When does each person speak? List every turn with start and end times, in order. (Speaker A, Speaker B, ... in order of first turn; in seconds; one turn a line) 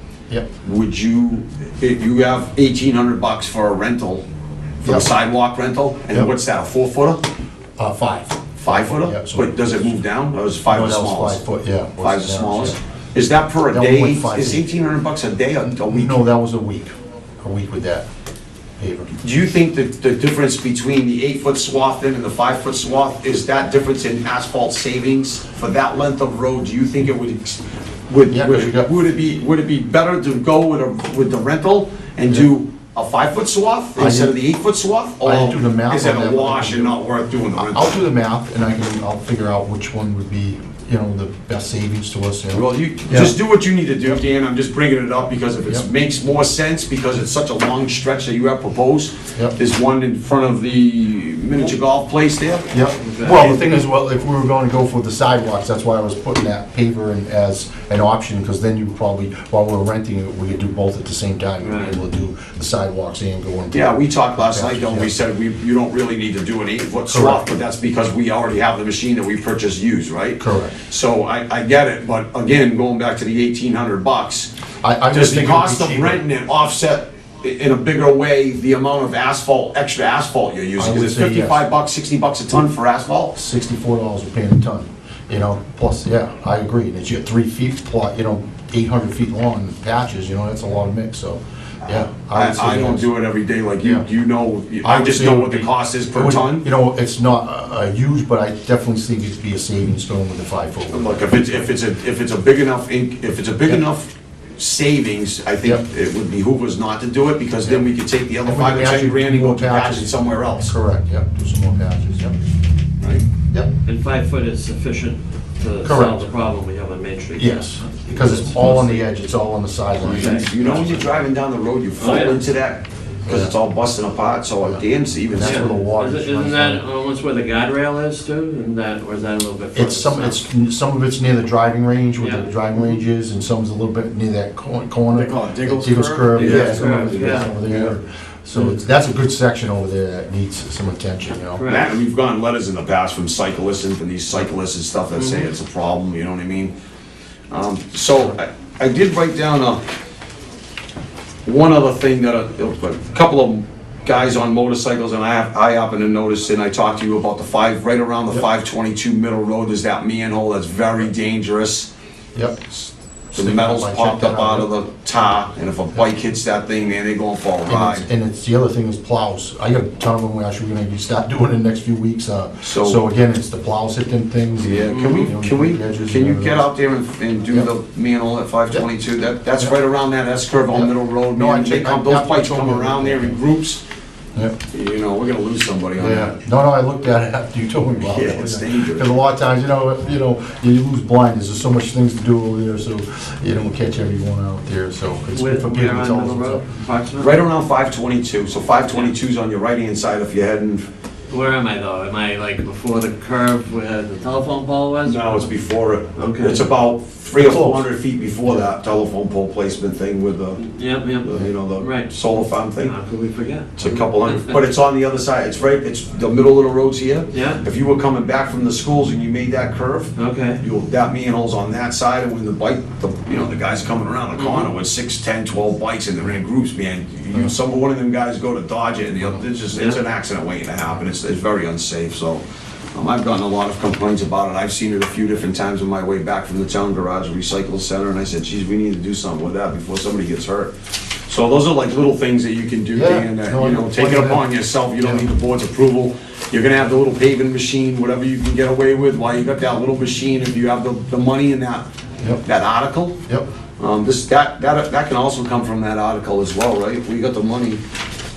Speaker A: 0.6-4.2
Speaker A: 4.8-7.2
Speaker B: 4.8-5.1
Speaker B: 7.8-9.8
Speaker A: 8.6-11.4
Speaker B: 10.7-12.8
Speaker A: 12.0-16.2
Speaker B: 13.7-14.7
Speaker B: 15.6-18.1
Speaker B: 18.8-19.1
Speaker A: 19.2-38.0
Speaker B: 28.3-28.9
Speaker B: 34.0-34.4
Speaker B: 35.2-37.0
Speaker B: 37.6-43.3
Speaker A: 42.5-52.7
Speaker B: 52.7-65.1
Speaker C: 53.0-53.5
Speaker A: 53.3-53.8
Speaker C: 61.6-62.0
Speaker A: 63.7-74.5
Speaker B: 67.1-67.4
Speaker B: 70.4-70.7
Speaker B: 74.8-76.2
Speaker A: 75.1-83.3
Speaker B: 80.8-81.6
Speaker B: 83.3-93.1
Speaker A: 91.8-96.7
Speaker B: 94.8-101.6
Speaker A: 100.9-110.7
Speaker B: 108.4-112.4
Speaker C: 113.8-119.0
Speaker B: 115.8-116.2
Speaker B: 117.4-120.5
Speaker A: 120.0-125.8
Speaker C: 120.1-121.1
Speaker C: 122.0-122.5
Speaker B: 123.3-123.5
Speaker B: 124.6-126.8
Speaker C: 125.4-130.4
Speaker B: 129.7-141.6
Speaker C: 132.2-132.5
Speaker A: 135.1-137.9
Speaker C: 136.3-137.5
Speaker C: 141.6-141.9
Speaker A: 141.6-146.7
Speaker C: 145.2-145.5
Speaker A: 147.5-149.8
Speaker A: 151.4-161.9
Speaker B: 162.3-162.6
Speaker A: 162.8-168.1
Speaker B: 163.3-164.7
Speaker B: 167.7-176.7
Speaker A: 172.6-173.0
Speaker A: 174.6-183.8
Speaker C: 174.9-175.3
Speaker B: 180.7-183.4
Speaker A: 184.7-186.4
Speaker B: 186.0-196.6
Speaker A: 188.0-189.1
Speaker C: 195.3-197.4
Speaker A: 197.2-200.9
Speaker C: 201.3-205.4
Speaker A: 205.0-210.6
Speaker C: 206.2-206.7
Speaker B: 207.4-207.9
Speaker C: 210.6-214.4
Speaker A: 211.2-212.9
Speaker A: 213.8-232.4
Speaker C: 217.3-217.6
Speaker C: 220.2-220.6
Speaker C: 224.4-224.7
Speaker A: 232.9-240.7
Speaker A: 241.3-251.9
Speaker B: 242.9-244.4
Speaker B: 245.0-245.2
Speaker A: 252.4-253.2
Speaker A: 253.8-257.8